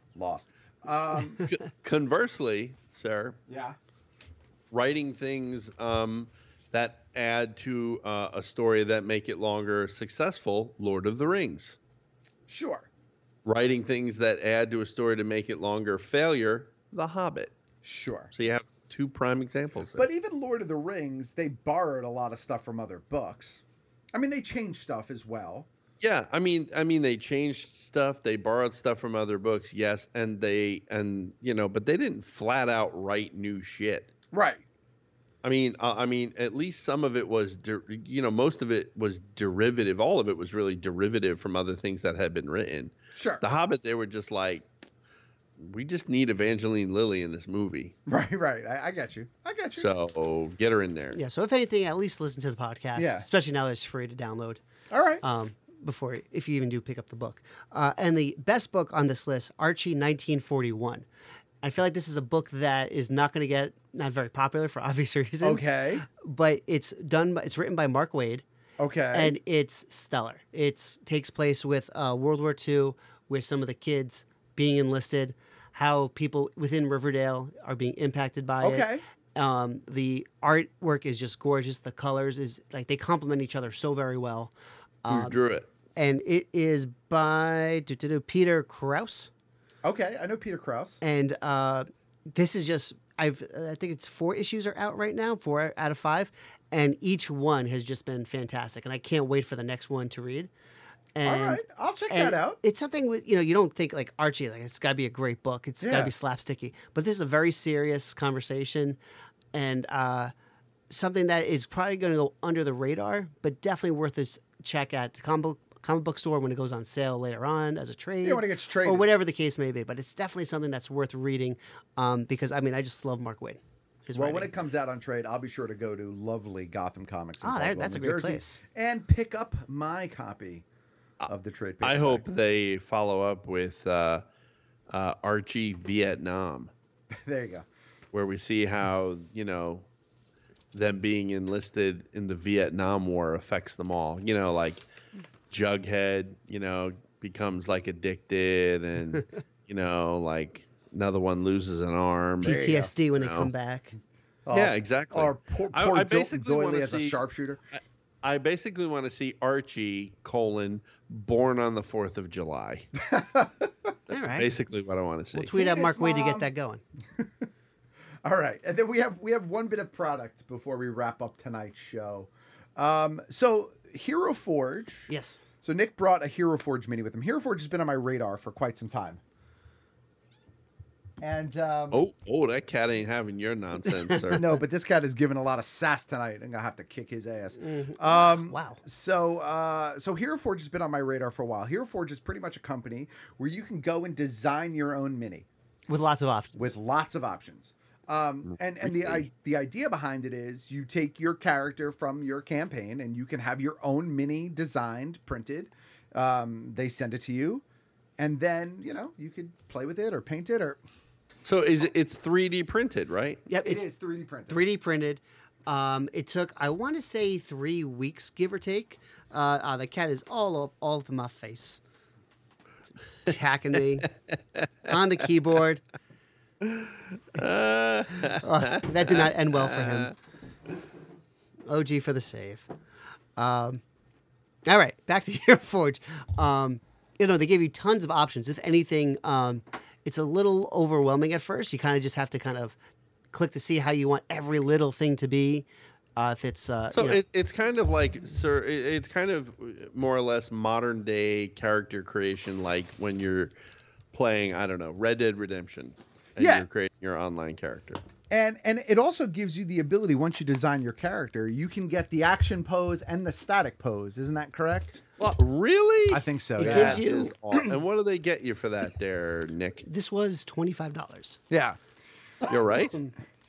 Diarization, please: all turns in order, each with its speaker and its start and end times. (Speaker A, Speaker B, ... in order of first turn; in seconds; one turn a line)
Speaker A: 0.1-1.4
Speaker B: 1.5-3.4
Speaker A: 3.5-3.8
Speaker B: 4.7-11.8
Speaker A: 12.5-12.9
Speaker B: 13.5-17.5
Speaker A: 17.8-18.3
Speaker B: 18.3-20.1
Speaker A: 19.9-25.7
Speaker B: 26.0-34.1
Speaker A: 34.3-34.6
Speaker B: 35.4-44.7
Speaker A: 43.1-43.4
Speaker B: 45.6-48.0
Speaker A: 48.1-49.9
Speaker B: 49.8-51.2
Speaker C: 51.1-54.6
Speaker A: 53.0-53.3
Speaker A: 54.9-55.2
Speaker C: 55.2-61.0
Speaker C: 61.6-68.4
Speaker A: 65.4-66.0
Speaker A: 68.8-69.4
Speaker C: 69.1-84.5
Speaker A: 78.6-79.0
Speaker C: 85.0-85.4
Speaker B: 85.1-85.7
Speaker C: 86.0-89.3
Speaker A: 89.8-91.0
Speaker C: 91.0-100.5
Speaker C: 101.2-109.0
Speaker A: 101.2-102.6
Speaker A: 105.8-106.1
Speaker C: 109.5-110.3
Speaker C: 110.9-124.5
Speaker A: 118.2-119.1
Speaker A: 124.1-130.7
Speaker C: 127.4-128.6
Speaker A: 131.3-132.3
Speaker B: 131.8-134.2
Speaker B: 134.9-136.7
Speaker A: 137.1-137.7
Speaker B: 138.1-139.9
Speaker B: 140.7-144.8
Speaker B: 145.5-153.5
Speaker C: 152.4-153.9
Speaker A: 152.4-152.9
Speaker A: 154.5-157.6
Speaker B: 154.5-157.2
Speaker B: 157.8-162.9
Speaker A: 163.0-163.7
Speaker C: 164.1-164.5
Speaker B: 164.1-165.6
Speaker C: 165.3-166.8
Speaker A: 165.5-166.5
Speaker A: 167.2-167.4
Speaker A: 168.2-175.1
Speaker C: 175.1-175.4
Speaker A: 175.6-179.2
Speaker A: 181.2-182.0
Speaker B: 181.9-184.4
Speaker A: 184.3-195.5
Speaker C: 187.6-188.8
Speaker C: 195.9-196.8
Speaker A: 196.6-207.6
Speaker B: 198.5-199.3
Speaker A: 208.2-210.8
Speaker B: 211.4-213.4
Speaker C: 213.5-213.9
Speaker A: 213.6-214.6
Speaker C: 214.5-221.8
Speaker C: 223.2-224.1
Speaker C: 224.9-225.8
Speaker B: 226.6-230.1
Speaker C: 228.4-230.1
Speaker C: 231.7-232.7
Speaker C: 233.4-233.8
Speaker C: 234.7-242.8
Speaker C: 243.3-247.2
Speaker B: 246.9-253.5
Speaker B: 254.1-258.0
Speaker A: 256.4-256.6
Speaker A: 258.3-265.1
Speaker B: 265.2-269.9
Speaker A: 266.1-267.0
Speaker C: 266.6-267.3
Speaker C: 269.9-271.4
Speaker A: 271.5-271.8
Speaker B: 272.5-272.9